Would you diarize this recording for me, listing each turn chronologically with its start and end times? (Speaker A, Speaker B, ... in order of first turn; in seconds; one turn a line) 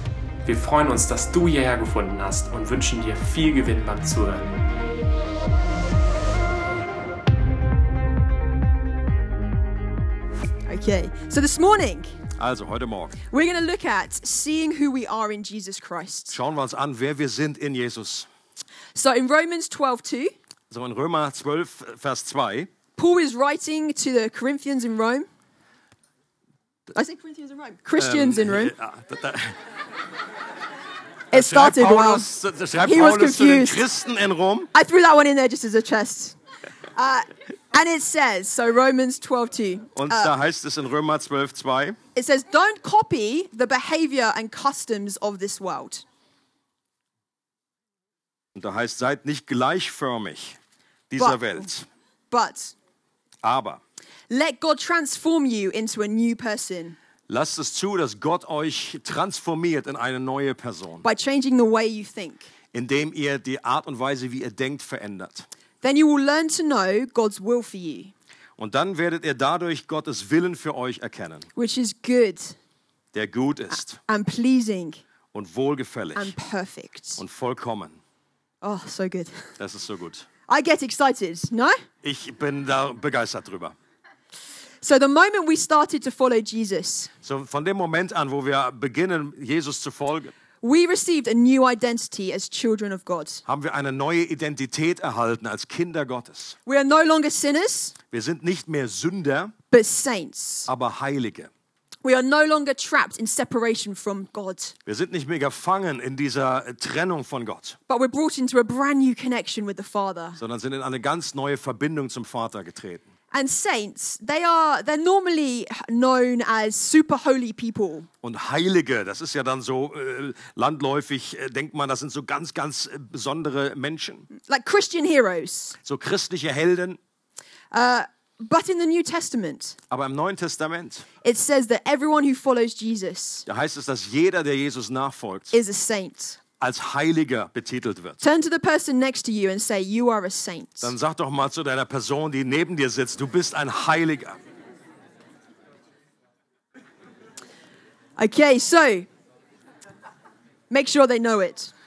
Speaker A: 0.5-4.5
Speaker B: 10.7-12.1
Speaker C: 12.4-13.1
Speaker B: 13.3-16.3
Speaker C: 16.3-18.3
Speaker B: 18.9-20.3
Speaker C: 20.7-22.7
Speaker B: 23.0-25.3
Speaker B: 26.9-28.7
Speaker C: 28.0-29.6
Speaker B: 31.3-32.2
Speaker C: 31.3-34.7
Speaker B: 32.8-33.8
Speaker B: 34.7-36.4
Speaker B: 36.9-40.3
Speaker C: 40.0-42.0
Speaker B: 42.1-46.0
Speaker C: 48.5-50.6
Speaker C: 51.1-51.9
Speaker B: 51.2-51.7
Speaker B: 52.3-52.7
Speaker C: 53.4-53.8
Speaker B: 54.3-57.0
Speaker C: 57.3-61.0
Speaker B: 61.0-62.5
Speaker C: 62.7-65.5
Speaker B: 65.8-68.1
Speaker C: 68.6-71.5
Speaker B: 71.5-72.6
Speaker C: 73.1-74.0
Speaker B: 74.0-75.0
Speaker C: 75.3-76.3
Speaker B: 76.2-77.2
Speaker C: 77.2-78.0
Speaker B: 78.6-79.5
Speaker C: 79.6-80.2
Speaker B: 80.5-81.8
Speaker C: 82.0-83.7
Speaker B: 84.8-87.1
Speaker C: 87.2-90.3
Speaker B: 90.6-93.4
Speaker C: 93.5-96.5
Speaker B: 96.7-97.9
Speaker C: 98.1-99.5
Speaker B: 99.7-100.7
Speaker C: 100.7-101.5
Speaker B: 102.0-104.7
Speaker C: 104.8-107.8
Speaker B: 107.9-110.4
Speaker C: 110.4-113.0
Speaker B: 113.3-118.1
Speaker C: 118.2-124.3
Speaker B: 124.4-125.8
Speaker C: 125.8-127.0
Speaker B: 127.7-129.8
Speaker C: 129.9-131.1
Speaker B: 131.2-133.4
Speaker C: 133.4-135.5
Speaker B: 135.5-136.4
Speaker C: 136.6-138.2
Speaker B: 138.2-140.9
Speaker C: 140.8-144.4
Speaker B: 148.2-149.1
Speaker B: 150.7-151.7